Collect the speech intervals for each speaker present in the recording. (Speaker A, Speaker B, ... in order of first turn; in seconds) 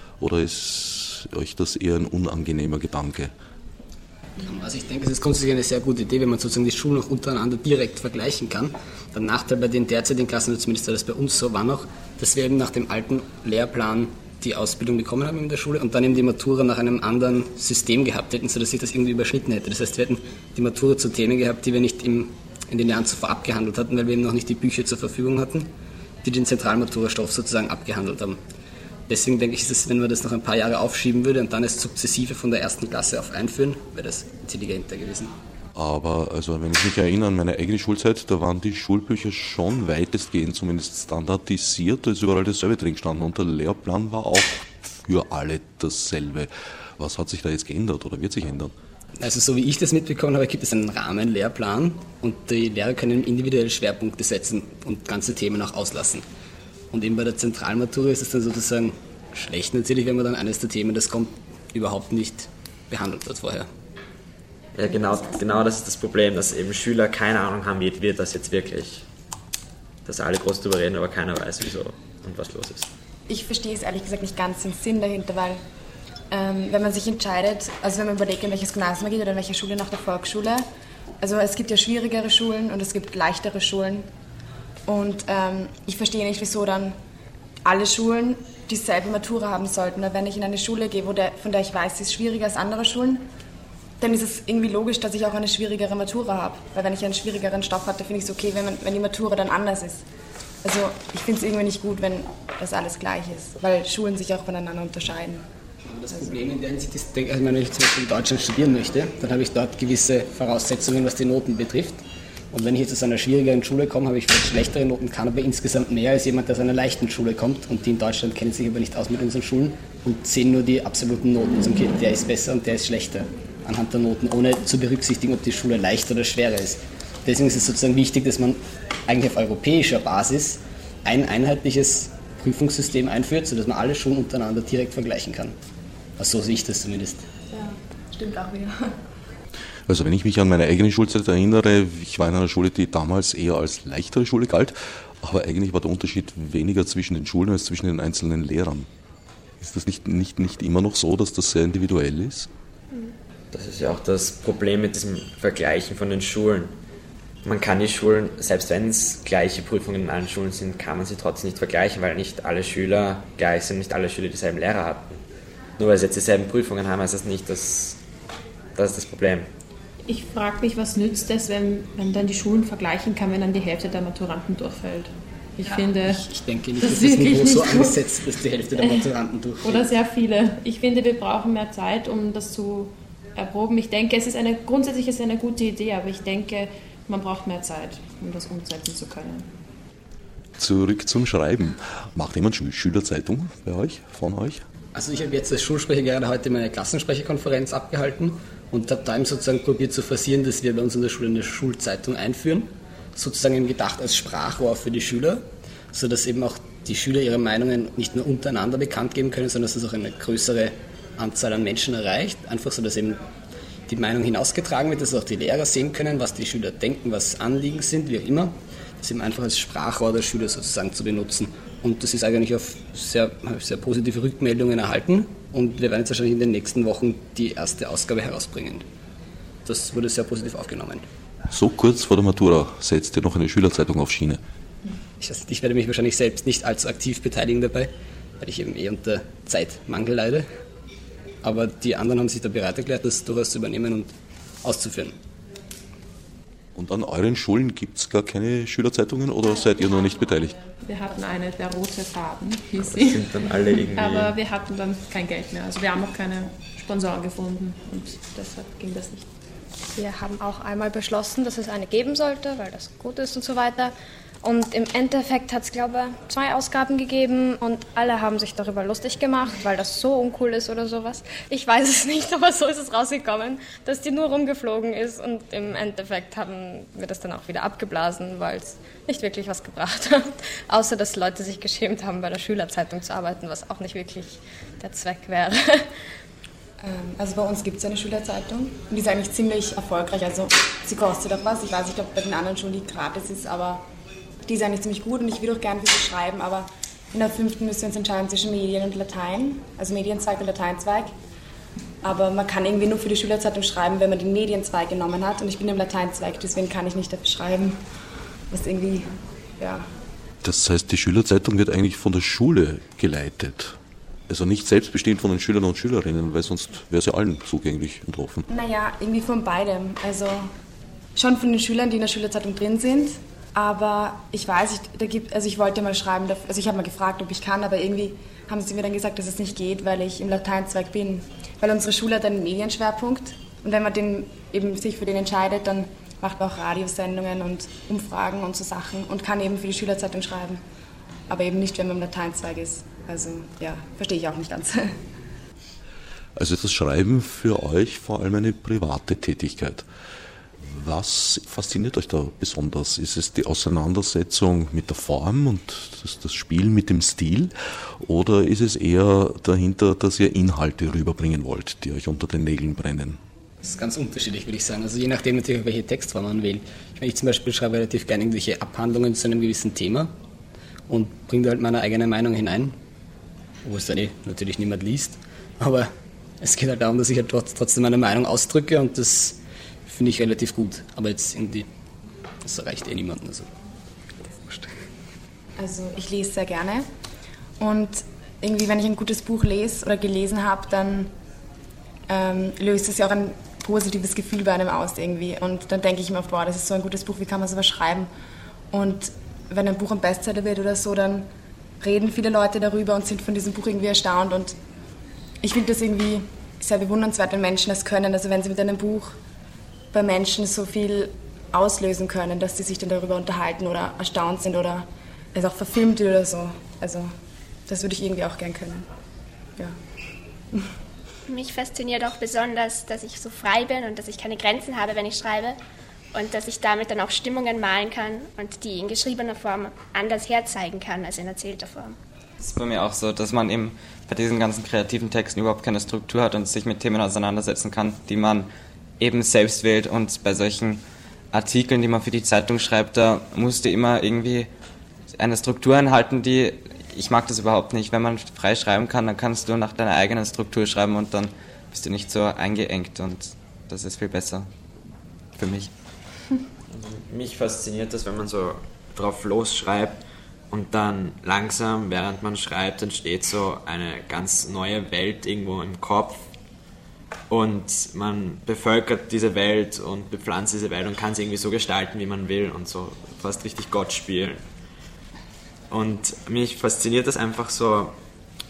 Speaker A: 0.2-3.3, 35.8-48.7, 139.9-148.9, 149.6-152.5, 190.6-194.6, 231.5-234.4, 246.8-250.6, 310.4-313.8, 314.3-318.5, 346.4-349.9, 350.6-363.2
Speaker B: 4.4-25.7, 26.2-28.4, 29.1-35.3, 49.2-56.2, 56.9-63.7, 105.9-135.5, 136.2-137.2, 176.0-179.9, 194.9-213.2, 213.9-228.8, 229.7-231.0, 235.2-240.5, 241.4-244.1, 244.6-245.2, 363.6-370.1, 370.9-372.8, 373.6-375.9, 376.4-381.7, 382.4-383.5, 384.3-384.8
Speaker C: 64.8-69.0, 70.1-72.9, 153.5-156.8, 157.4-165.2, 165.8-168.0, 168.8-169.5, 252.8-254.3, 456.7-460.0, 460.5-466.2, 467.3-474.4, 475.7-477.9
Speaker D: 73.3-75.6, 76.3-80.7, 81.2-84.1, 84.9-87.0, 87.7-93.3, 94.0-100.0, 100.6-105.5, 286.8-293.8, 294.5-301.1, 302.0-307.8, 308.5-309.9, 318.5-320.5, 321.2-340.6, 341.3-345.0, 385.6-386.9, 387.6-391.1, 392.1-398.1, 398.7-401.3, 401.8-404.6, 405.4-409.2, 409.9-417.1, 417.7-418.9
Speaker E: 170.1-176.2, 176.8-178.0, 178.8-179.1, 179.6-189.5, 250.8-253.2, 254.0-259.3
Speaker F: 260.0-285.9
Speaker G: 421.3-425.6, 426.1-432.0
Speaker H: 432.4-438.5, 439.0-444.5, 445.2-454.5, 455.4-455.7